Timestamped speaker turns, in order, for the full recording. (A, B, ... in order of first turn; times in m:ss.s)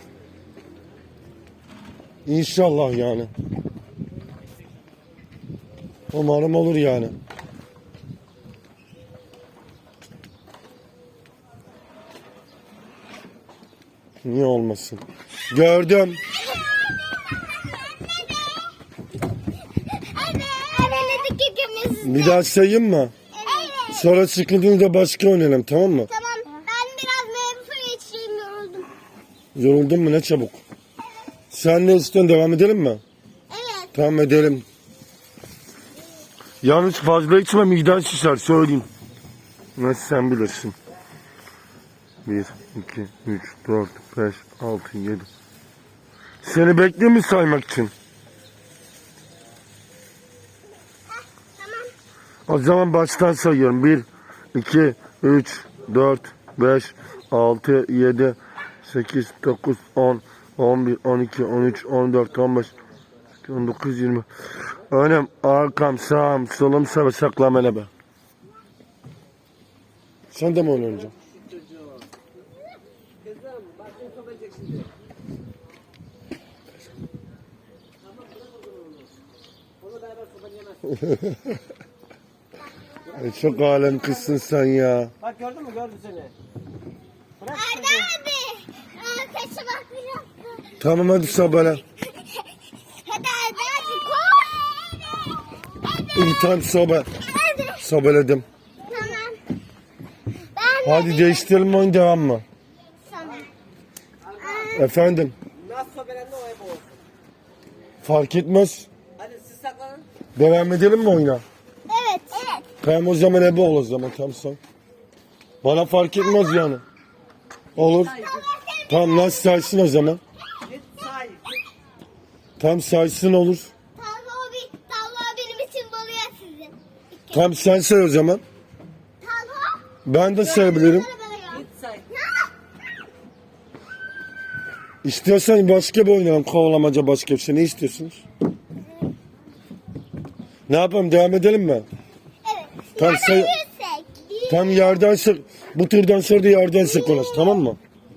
0:02.3-0:03.3 A
0:06.1-0:07.1 A
0:14.2-0:16.2 A
0:16.4-0:18.7 B
0:19.8-0:22.4 B
0:22.0-0:23.1 A
0:23.3-0:24.1 B
0:23.8-0:26.1 A
0:26.1-0:28.9 B
0:29.6-0:30.6 A
0:31.5-0:33.0 A
0:33.5-0:33.9 B
0:33.9-0:34.6 A
0:36.6-0:38.9 A
0:39.8-0:40.8 A
0:42.2-0:45.3 A
0:46.4-0:47.9 A
0:51.6-0:51.9 B
0:52.5-1:02.7 A
1:03.4-1:04.3 A
1:04.9-1:07.9 A
1:10.3-1:11.1 A
1:13.3-1:14.9 C
1:18.3-1:19.0 C
1:19.8-1:20.9 C
1:21.0-1:21.4 A
1:23.1-1:25.1 A
1:25.2-1:26.3 C
1:27.4-1:30.8 B
1:27.4-1:28.0 C
1:30.8-1:31.8 A
1:32.1-1:36.2 B
1:36.1-1:37.1 A
1:37.2-1:37.8 B
1:37.8-1:38.4 A
1:38.9-1:39.4 B
1:40.5-1:41.6 B
1:40.8-1:42.4 A
1:43.1-1:43.5 B
1:44.4-1:44.9 B
1:44.7-1:45.4 A
1:45.6-1:47.0 C
1:48.0-1:48.9 A
1:49.2-1:50.0 C
1:50.4-1:51.4 A
1:51.9-1:52.7 B
1:52.8-1:54.6 A
1:55.6-1:56.8 A
1:57.8-1:58.2 A
1:58.2-1:59.4 B
1:58.9-2:00.2 A
2:00.7-2:01.4 C
2:02.6-2:03.7 A
2:04.0-2:07.5 B
2:07.3-2:08.4 A
2:09.2-2:12.5 B
2:10.0-2:11.1 A
2:11.6-2:12.0 C
2:15.0-2:18.2 A
2:20.7-2:21.8 A
2:22.4-2:25.0 B
2:23.0-2:23.5 A
2:24.5-2:27.8 A
2:26.8-2:27.7 B